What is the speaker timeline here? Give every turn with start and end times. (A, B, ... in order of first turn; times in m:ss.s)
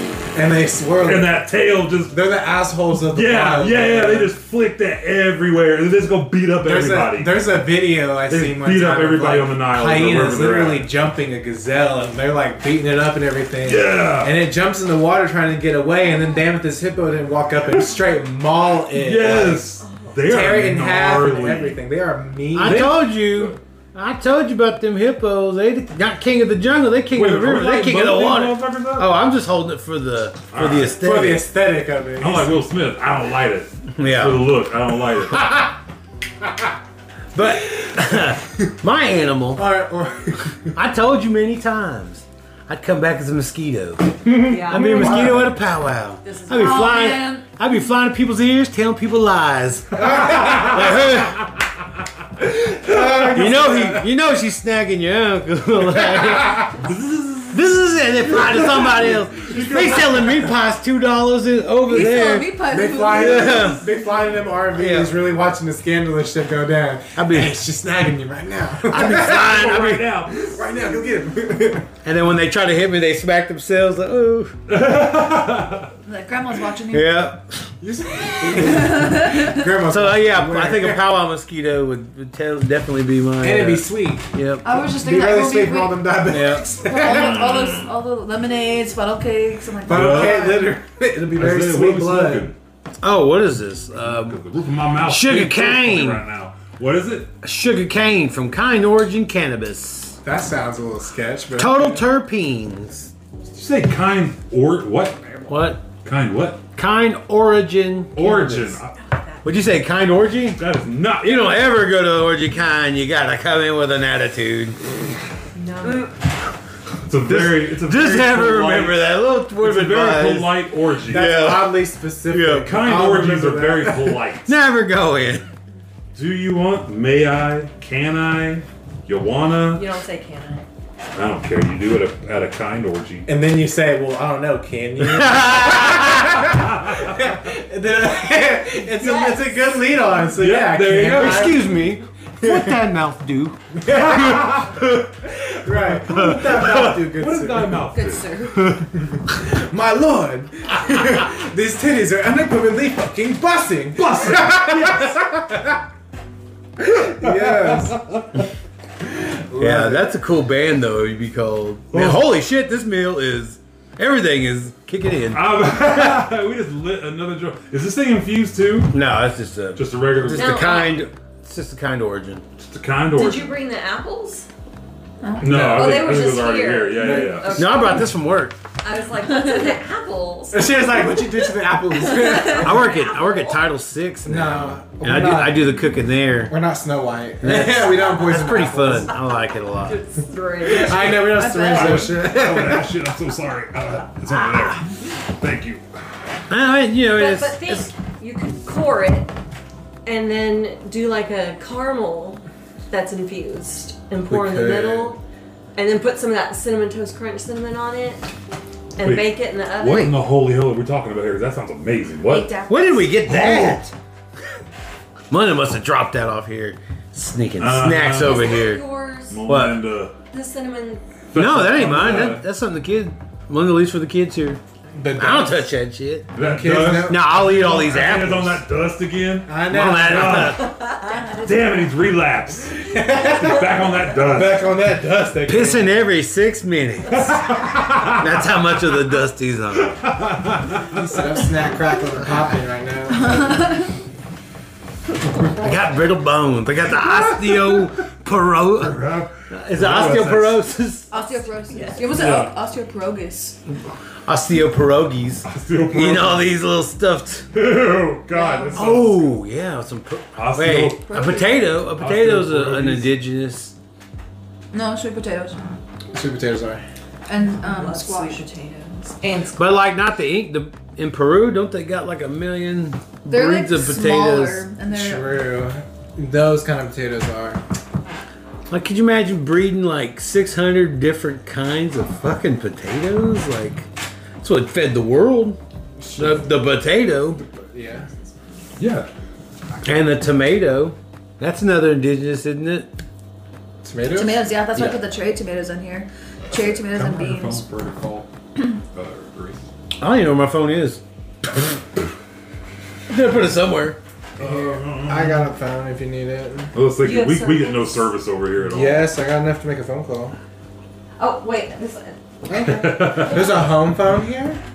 0:00.3-0:01.4 A
0:01.0-0:02.2 B
0:02.1-0:04.3 A
0:03.1-0:07.4 B
0:06.6-0:23.1 A
0:08.3-0:10.9 B
0:13.6-0:14.4 B
0:18.9-0:21.8 B
0:19.8-0:20.4 C
0:22.6-0:31.5 D
0:22.6-0:23.6 B
0:27.1-0:29.1 B
0:30.5-0:31.0 B
0:30.9-0:32.6 A
0:32.2-0:35.7 B
0:34.0-0:34.6 D
0:37.3-0:39.6 D
0:39.5-0:40.7 A
0:40.7-0:51.6 D
0:44.2-0:45.6 A
0:44.4-0:45.4 C
0:46.2-0:47.4 C
0:46.6-0:47.4 E
0:50.0-0:50.6 A
0:52.5-0:54.1 A
0:53.0-1:03.8 D
0:56.9-0:57.5 B
0:58.4-1:00.5 B
1:01.8-1:03.8 E
1:02.7-1:11.9 A
1:04.7-1:05.1 D
1:07.2-1:07.5 D
1:08.9-1:10.1 D
1:09.1-1:10.6 B
1:12.0-1:14.6 D
1:14.7-1:15.9 B
1:16.0-1:17.2 E
1:16.9-1:17.7 D
1:17.8-1:21.1 A
1:18.5-1:19.7 E
1:19.8-1:24.6 D
1:23.4-1:24.3 A
1:24.6-1:26.1 E
1:24.9-1:27.5 A
1:26.3-1:27.8 D
1:26.8-1:30.6 E
1:29.9-1:32.5 A
1:29.9-1:30.6 B
1:31.4-1:32.6 B
1:33.0-1:36.2 D
1:34.0-1:37.3 B
1:37.4-1:40.2 D
1:40.2-1:42.0 A
1:41.6-1:43.1 D
1:43.5-1:45.4 B
1:45.5-1:45.9 D
1:46.0-1:46.6 B
1:46.7-1:48.8 D
1:48.1-1:49.0 B
1:49.0-1:49.4 C
1:49.4-1:55.0 D
1:50.6-1:51.7 B
1:55.6-1:56.1 C
1:57.0-2:01.4 B
1:57.2-2:02.8 D
2:01.0-2:04.2 A
2:02.6-2:04.6 B
2:04.4-2:05.5 D
2:06.1-2:09.9 B
2:09.7-2:10.6 C
2:11.1-2:13.3 B
2:13.3-2:22.9 A
2:15.0-2:16.1 D
2:16.4-2:17.1 B
2:19.0-2:20.0 C
2:20.4-2:21.6 B
2:21.0-2:25.0 D
2:23.8-2:27.9 A
2:26.0-2:28.3 B
2:26.0-2:27.0 D
2:27.9-2:28.7 E
2:28.6-2:28.9 D
2:28.9-2:35.8 A
2:34.0-2:35.1 B
2:36.8-2:38.0 A
2:37.0-2:38.3 B
2:39.0-2:40.2 A
2:39.6-2:46.2 D
2:41.9-2:42.3 B
2:45.3-2:49.0 B
2:48.9-2:52.4 D
2:49.8-2:50.8 B
2:50.3-2:51.1 C
2:52.6-2:53.6 B
2:53.1-2:54.5 C
2:55.2-2:55.5 E
2:55.4-2:58.0 B
2:55.4-2:55.8 A
2:55.5-2:58.2 C
2:57.0-2:57.4 A
2:57.5-2:58.6 D
2:58.8-3:00.8 C
2:59.3-2:59.6 E
3:00.5-3:02.9 A
3:02.0-3:03.7 C
3:02.4-3:06.6 D
3:04.2-3:05.9 A
3:06.4-3:09.1 A
3:07.4-3:10.0 D
3:09.8-3:11.3 C
3:10.6-3:12.9 A
3:11.2-3:12.1 E
3:11.6-3:16.4 B
3:16.5-3:17.9 D
3:17.0-3:19.3 C
3:20.0-3:25.2 C
3:24.3-3:25.1 A
3:25.8-3:28.3 C
3:29.0-3:30.1 C
3:29.0-3:32.6 B
3:32.2-3:33.3 E
3:32.6-3:33.9 D
3:33.3-3:33.8 B
3:35.3-3:38.8 D
3:37.6-3:38.8 B
3:38.2-3:39.4 C
3:39.3-3:40.1 B
3:39.5-3:39.9 D
3:40.3-3:41.0 C
3:41.3-3:42.4 B
3:41.4-3:44.6 D
3:44.9-3:45.7 A
3:45.2-3:46.3 D
3:46.3-3:50.8 B
3:46.4-3:48.1 A
3:47.0-3:48.6 D
3:49.4-3:50.6 A
3:49.7-3:50.7 D
3:50.9-3:51.3 C
3:51.0-3:51.8 E
3:51.4-3:54.6 B
3:52.8-3:56.0 A
3:55.5-4:00.0 D
3:57.2-3:58.6 B
3:59.7-4:01.4 B
4:01.0-4:03.7 A
4:03.1-4:03.9 E
4:05.4-4:11.1 D
4:06.8-4:08.0 B
4:08.7-4:10.6 B
4:11.1-4:13.6 E
4:11.2-4:12.1 C
4:12.1-4:12.6 B
4:14.3-4:17.5 D
4:15.4-4:16.6 B
4:17.5-4:19.4 B
4:18.3-4:18.9 E
4:18.7-4:23.7 D
4:20.3-4:23.1 B
4:21.0-4:21.7 E
4:24.7-4:25.8 E
4:26.1-4:26.8 A
4:27.3-4:28.4 E
4:27.5-4:29.7 C
4:29.6-4:34.7 D
4:33.3-4:35.4 E
4:34.9-4:37.6 A
4:38.7-4:43.9 D
4:44.4-4:45.6 D
4:46.0-4:46.7 A
4:46.2-4:47.4 D
4:47.3-4:48.1 A
4:48.8-4:49.1 B
4:49.7-4:50.2 B
4:49.8-4:52.9 D
4:53.8-4:54.4 A
4:54.1-4:57.6 E
4:54.7-4:55.0 D
4:56.5-4:58.3 B
4:58.9-4:59.6 B
5:00.0-5:01.6 D
5:03.1-5:04.0 D
5:04.4-5:05.5 B
5:04.4-5:06.7 A
5:06.7-5:09.1 B
5:07.0-5:08.1 C
5:08.6-5:10.4 A
5:11.2-5:13.8 C
5:12.5-5:14.6 A
5:12.6-5:13.6 B